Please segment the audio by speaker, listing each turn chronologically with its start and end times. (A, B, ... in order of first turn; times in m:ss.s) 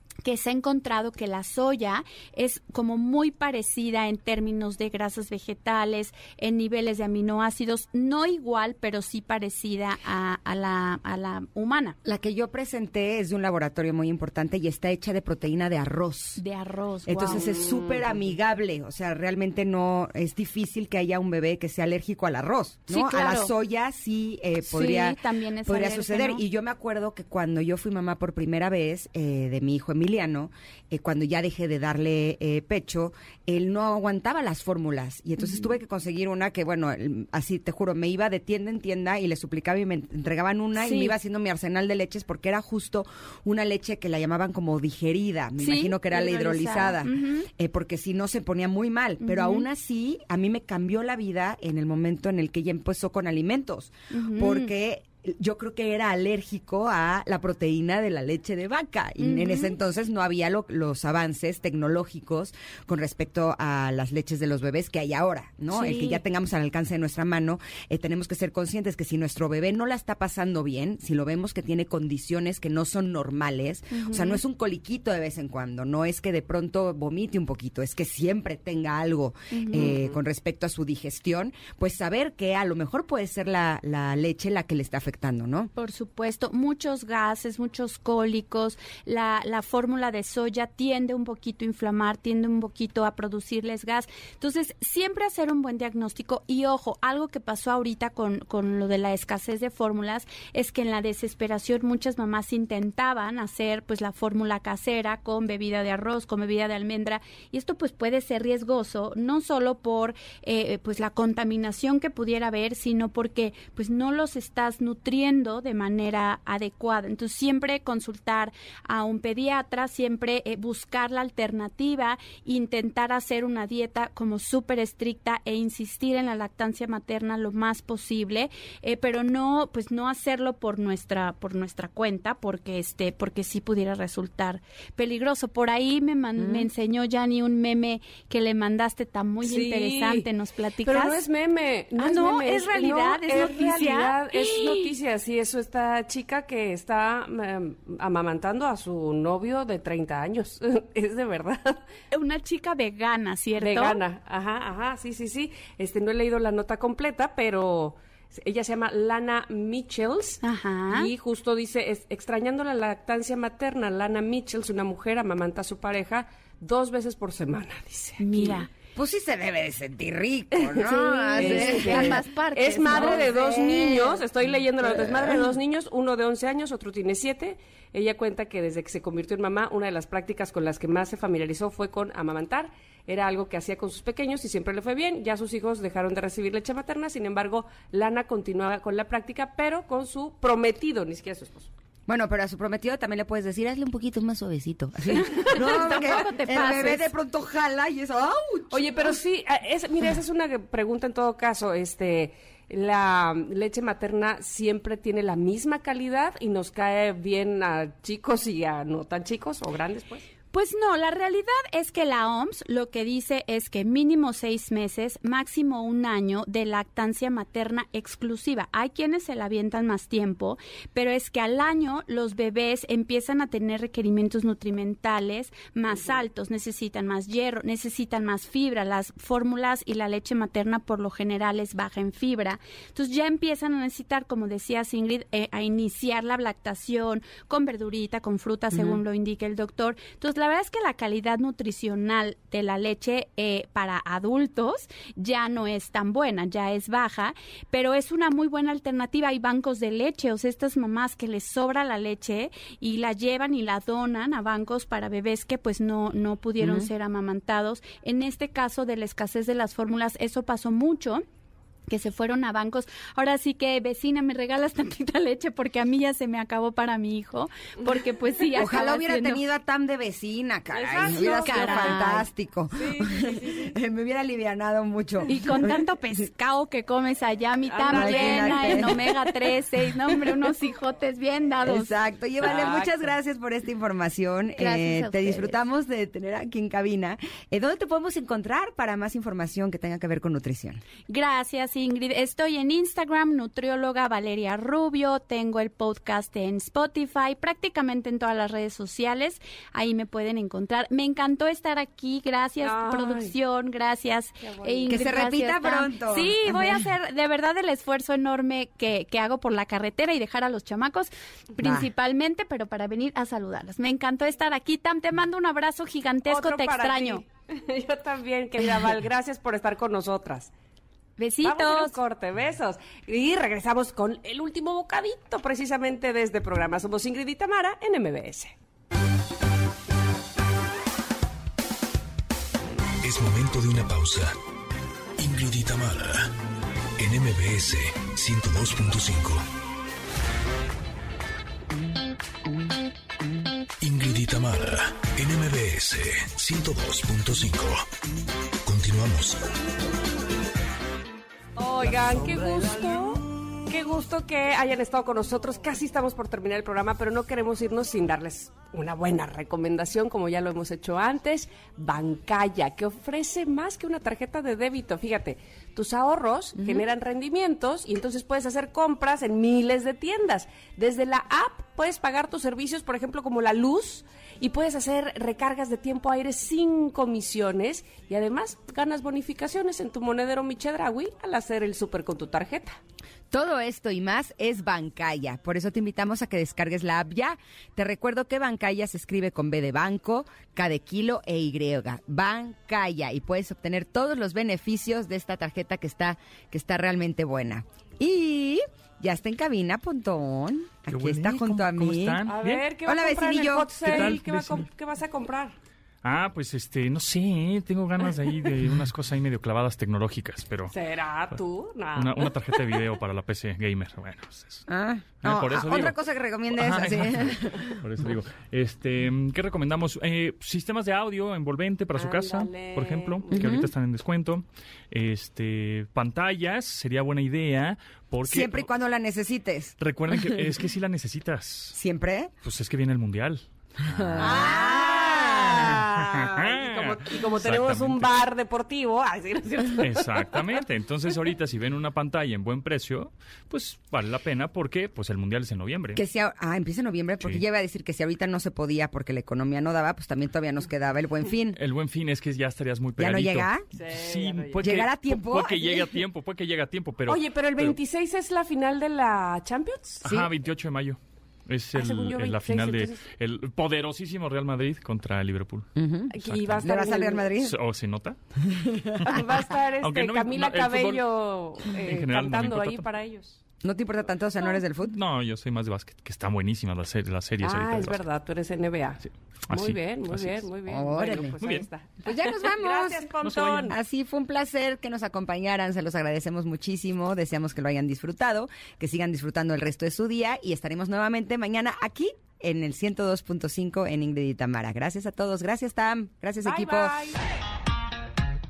0:00.2-0:12.0 A
0:12.0-0:16.4 B
0:16.4-0:17.7 A
0:17.1-1:25.7 B
0:17.3-0:18.2 C
0:22.9-0:23.5 A
0:24.6-0:26.4 A
0:35.4-0:35.7 A
0:40.8-0:41.2 A
0:45.6-0:47.5 A
0:49.2-0:49.7 A
0:54.1-0:54.7 A
0:59.2-0:59.8 A
1:05.7-1:06.2 A
1:13.9-1:14.4 A
1:19.5-1:20.0 A
1:25.8-2:21.2 A
2:16.4-2:16.7 B
2:19.4-2:20.3 C
2:20.8-2:31.8 C
2:22.0-2:25.0 A
2:32.1-2:34.0 A
2:33.6-2:48.7 C
2:40.4-2:41.1 A
2:48.2-2:48.7 A
2:49.0-2:52.2 B
2:50.8-2:53.6 A
2:51.4-3:11.7 C
2:52.9-2:54.2 B
2:54.9-2:55.4 B
3:12.1-3:19.1 B
3:15.1-3:17.1 A
3:15.4-3:16.2 C
3:18.7-3:30.3 C
3:30.5-4:21.2 A
3:58.7-3:59.0 B
4:16.6-4:16.9 B
4:21.9-4:29.4 A
4:28.6-4:35.8 B
4:30.7-4:32.1 C
4:31.1-4:32.3 A
4:32.7-4:33.7 C
4:35.3-4:42.0 A
4:37.7-4:39.0 C
4:37.9-4:39.2 B
4:41.6-4:50.8 B
4:42.4-4:43.1 C
4:44.6-4:45.6 A
4:51.1-5:17.2 A
5:02.6-5:03.4 C
5:04.4-5:05.1 C
5:04.9-5:06.8 B
5:11.6-5:11.9 B
5:16.3-5:20.5 C
5:21.2-5:22.0 A
5:21.4-5:28.5 C
5:33.0-5:34.4 D
5:35.2-5:36.3 D
5:37.0-5:39.4 D
5:43.8-5:47.9 D
5:48.6-5:49.4 D
5:51.6-6:22.8 C
6:06.6-6:06.9 B
6:23.3-6:42.2 B
6:40.9-6:42.7 E
6:42.2-6:45.6 C
6:42.8-6:44.2 B
6:43.8-6:44.7 E
6:46.0-6:50.7 E
6:50.7-6:52.6 C
6:52.0-6:54.6 E
6:54.7-6:57.8 B
6:55.2-7:08.7 E
7:01.9-7:03.5 C
7:03.3-7:03.7 B
7:08.3-7:10.5 B
7:09.8-7:11.8 E
7:11.8-7:12.3 B
7:12.4-7:14.5 E
7:13.9-7:15.8 B
7:14.2-7:20.6 C
7:15.7-7:18.2 E
7:19.8-7:26.0 E
7:26.0-7:31.6 B
7:31.6-7:37.8 E
7:33.0-7:33.6 B
7:33.7-7:34.7 C
7:34.6-7:36.0 B
7:37.1-7:40.0 C
7:40.0-7:48.2 E
7:40.0-7:40.3 B
7:41.7-7:43.0 C
7:45.8-7:47.6 B
7:46.1-7:47.3 C
7:48.5-7:49.2 B
7:49.1-7:53.4 C
7:49.8-7:51.2 E
7:51.8-7:52.9 E
7:53.6-7:55.0 B
7:54.9-7:58.0 E
7:57.4-8:03.8 C
7:59.0-8:00.5 E
8:00.7-8:01.4 B
8:01.4-8:01.7 E
8:02.0-8:17.0 B
8:03.2-8:03.8 E
8:16.4-8:17.2 C